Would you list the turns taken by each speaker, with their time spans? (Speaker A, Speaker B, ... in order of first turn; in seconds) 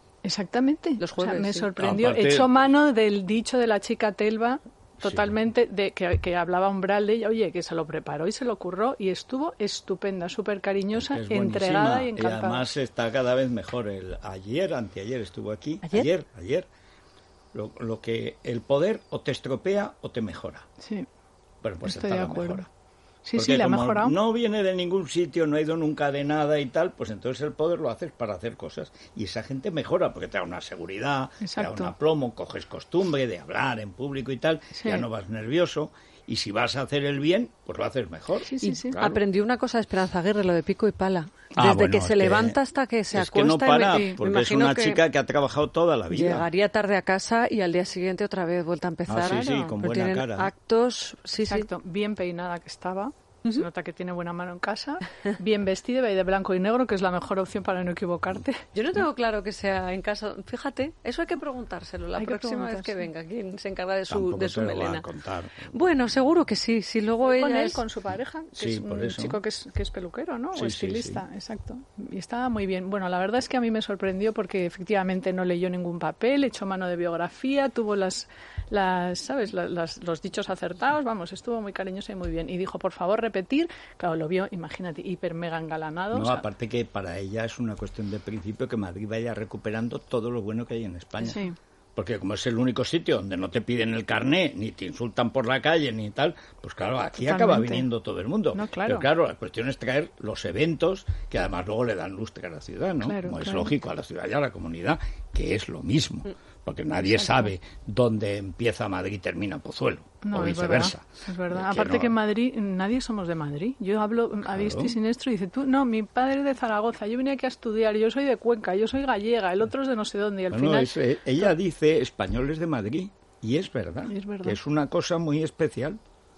Speaker A: 0.2-12.7, 20.8-21.1, 21.8-22.7, 23.2-24.2, 31.4-31.9, 34.7-35.1, 38.4-39.0, 43.9-44.2, 49.2-49.7, 51.4-58.6, 62.2-63.1, 67.2-86.5, 91.2-91.6, 97.2-97.9, 98.5-99.1, 103.0-103.7, 107.1-107.4, 110.2-121.5, 124.1-124.6
Speaker B: 1.0-1.7, 38.6-45.0, 46.1-51.7, 58.8-65.1, 65.7-67.8
Speaker C: 1.8-2.5, 5.0-5.3, 10.9-16.7, 17.5-20.7, 21.6-22.7, 23.4-39.2, 41.5-42.6, 43.1-46.5, 49.1-50.5, 64.1-65.8, 68.6-69.4, 70.5-71.2, 86.1-91.4, 92.0-112.2, 114.5-115.0, 120.5-126.0